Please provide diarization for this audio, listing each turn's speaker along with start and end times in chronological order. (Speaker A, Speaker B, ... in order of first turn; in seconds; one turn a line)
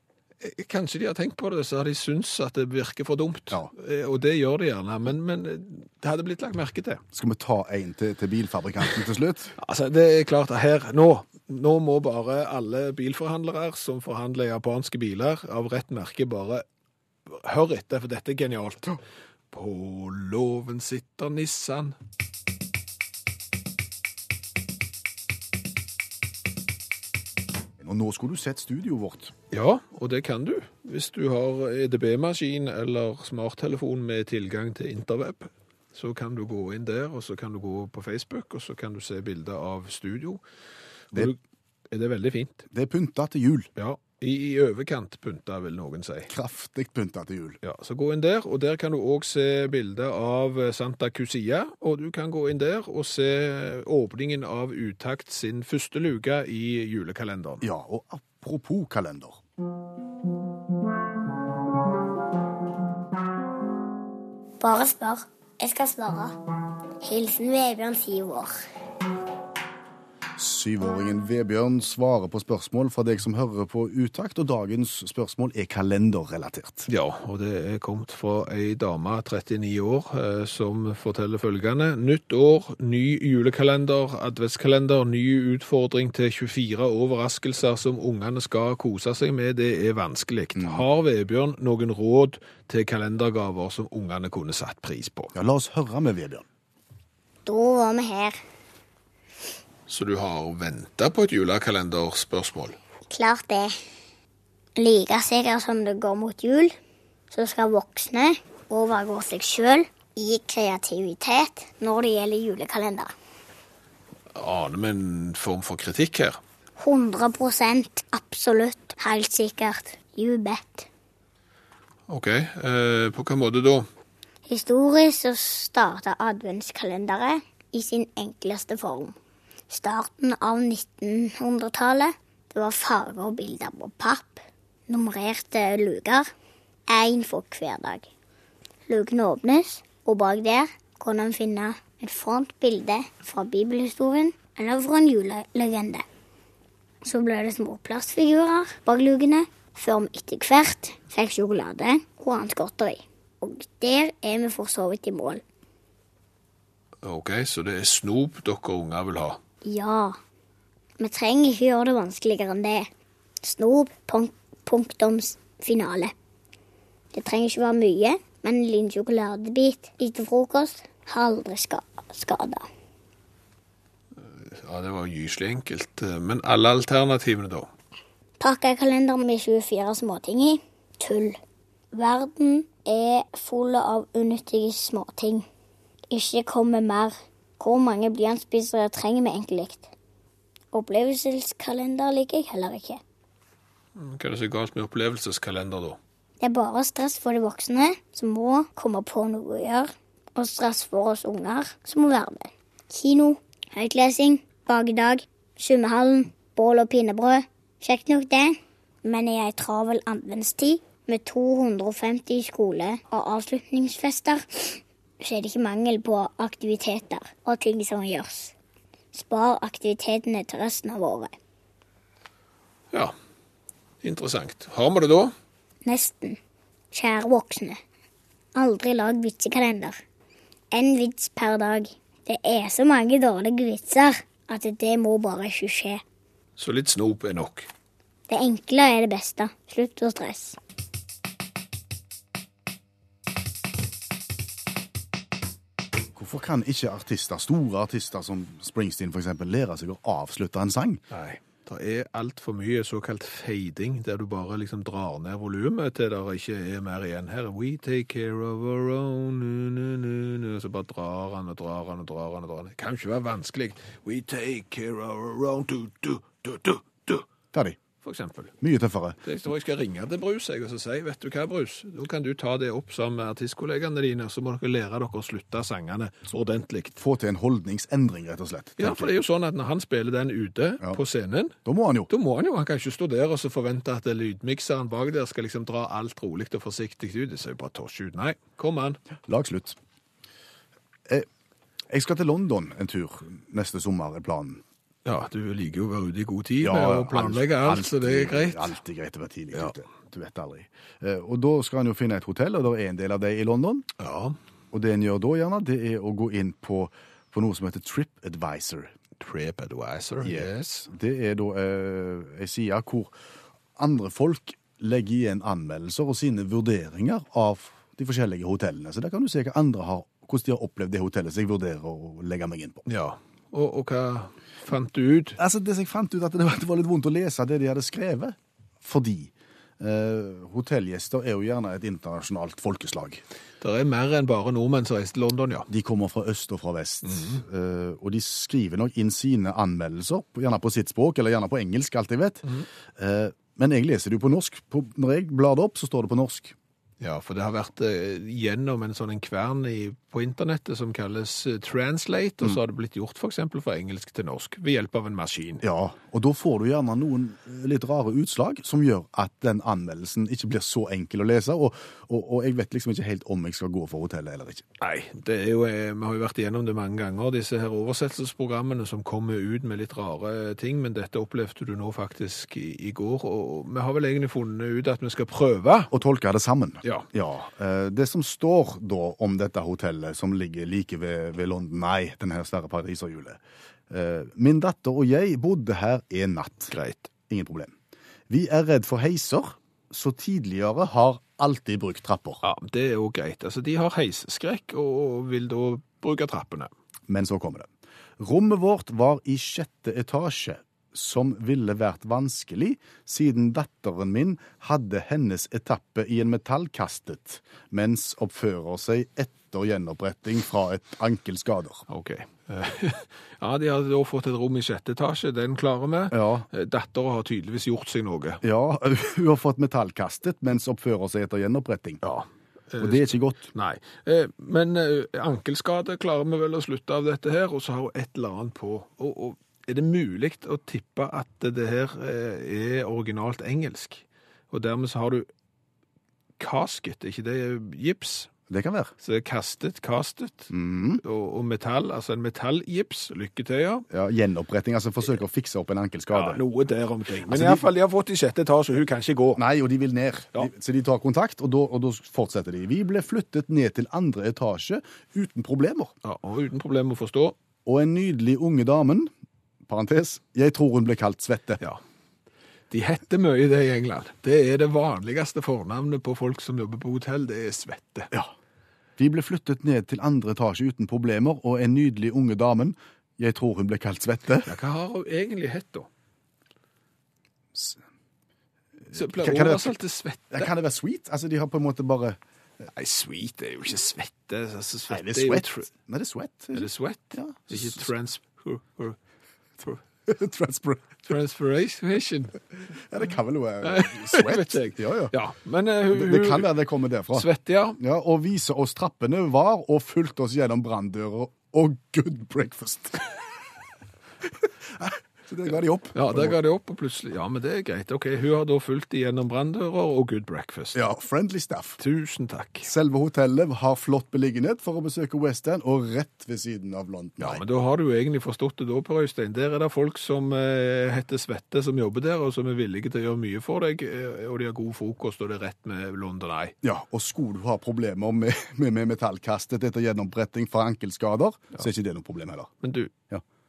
Speaker A: 0.4-7.0
Speaker B: 7.1-9.5
Speaker A: 9.6-16.6
Speaker A: 17.3-19.0
Speaker A: 19.5-21.9
Speaker B: 27.8-29.3
Speaker A: 29.5-40.4
Speaker A: 41.1-41.4
Speaker A: 41.9-42.7
Speaker B: 42.7-43.7
Speaker A: 43.8-46.3
Speaker B: 46.3-47.6
Speaker A: 47.6-57.6
Speaker B: 57.6-59.4
Speaker C: 64.6-66.3
Speaker C: 67.0-68.6
Speaker B: 70.4-76.9
Speaker A: 76.9-95.3
Speaker B: 90.5-90.8
Speaker B: 95.3-96.5
Speaker C: 97.5-98.4
Speaker A: 99.9-102.8
Speaker C: 103.1-103.8
Speaker C: 104.8-106.8
Speaker C: 107.3-113.1
Speaker A: 114.3-116.4
Speaker C: 116.8-120.9
Speaker A: 122.1-123.9
Speaker C: 124.5-129.1
Speaker C: 129.7-136.3
Speaker C: 136.9-138.1
Speaker C: 138.9-146.0
Speaker C: 147.0-155.4
Speaker A: 157.0-159.4
Speaker C: 159.6-160.2
Speaker C: 161.0-162.9
Speaker C: 163.4-166.1
Speaker C: 167.1-172.7
Speaker A: 174.2-177.7
Speaker C: 178.4-181.4
Speaker C: 181.9-185.4
Speaker C: 186.1-189.9
Speaker C: 190.7-193.0
Speaker A: 193.9-196.0
Speaker C: 196.4-218.5
Speaker C: 219.1-221.3
Speaker A: 224.0-225.3
Speaker C: 225.8-226.4
Speaker C: 226.9-227.8
Speaker C: 228.6-230.0
Speaker C: 230.7-236.0
Speaker A: 236.6-237.7
Speaker C: 238.3-240.6
Speaker B: 246.1-251.0
Speaker A: 251.1-267.2
Speaker A: 268.0-268.5
Speaker B: 268.6-269.2
Speaker A: 269.2-276.9
Speaker B: 276.9-279.1
Speaker A: 278.8-281.6
Speaker B: 281.6-282.1
Speaker A: 282.1-289.0
Speaker B: 289.3-289.8
Speaker B: 291.9-294.6
Speaker A: 295.1-298.8
Speaker B: 296.6-303.9
Speaker A: 304.0-304.4
Speaker B: 304.7-308.9
Speaker A: 309.2-310.9
Speaker B: 310.2-313.2
Speaker B: 313.8-322.8
Speaker A: 322.9-325.4
Speaker B: 325.4-333.2
Speaker A: 333.6-335.7
Speaker B: 335.7-342.4
Speaker A: 337.0-337.4
Speaker B: 342.9-346.6
Speaker A: 347.0-355.6
Speaker B: 355.6-364.6
Speaker A: 364.8-375.9
Speaker B: 375.9-386.7
Speaker A: 386.7-387.1
Speaker B: 387.3-387.7
Speaker B: 388.3-392.4
Speaker A: 392.4-396.7
Speaker B: 397.1-411.9
Speaker A: 411.9-418.4
Speaker B: 416.1-416.5
Speaker B: 418.4-422.0
Speaker A: 422.0-435.3
Speaker B: 422.8-423.5
Speaker A: 436.4-438.3
Speaker B: 438.5-438.9
Speaker A: 439.0-443.9
Speaker B: 440.5-441.0
Speaker B: 443.9-446.4
Speaker A: 446.1-449.4
Speaker B: 447.3-447.7
Speaker B: 449.4-455.9
Speaker A: 456.0-457.4
Speaker B: 457.6-459.1
Speaker B: 459.7-461.6
Speaker A: 462.7-468.1
Speaker B: 469.0-474.5
Speaker A: 474.4-475.9
Speaker B: 477.5-477.8
Speaker B: 478.9-479.7
Speaker A: 478.9-480.5
Speaker B: 480.3-482.2
Speaker A: 482.7-485.7
Speaker B: 484.9-487.8
Speaker A: 486.5-489.0
Speaker B: 490.1-491.0
Speaker A: 491.1-492.4
Speaker B: 492.8-495.1
Speaker A: 493.6-496.5
Speaker B: 495.9-503.2
Speaker A: 497.1-497.8
Speaker B: 504.7-506.4
Speaker A: 505.9-510.8
Speaker B: 510.7-511.8
Speaker A: 511.8-512.7
Speaker B: 512.6-517.4
Speaker A: 517.2-526.6
Speaker B: 526.6-532.5
Speaker A: 532.6-532.9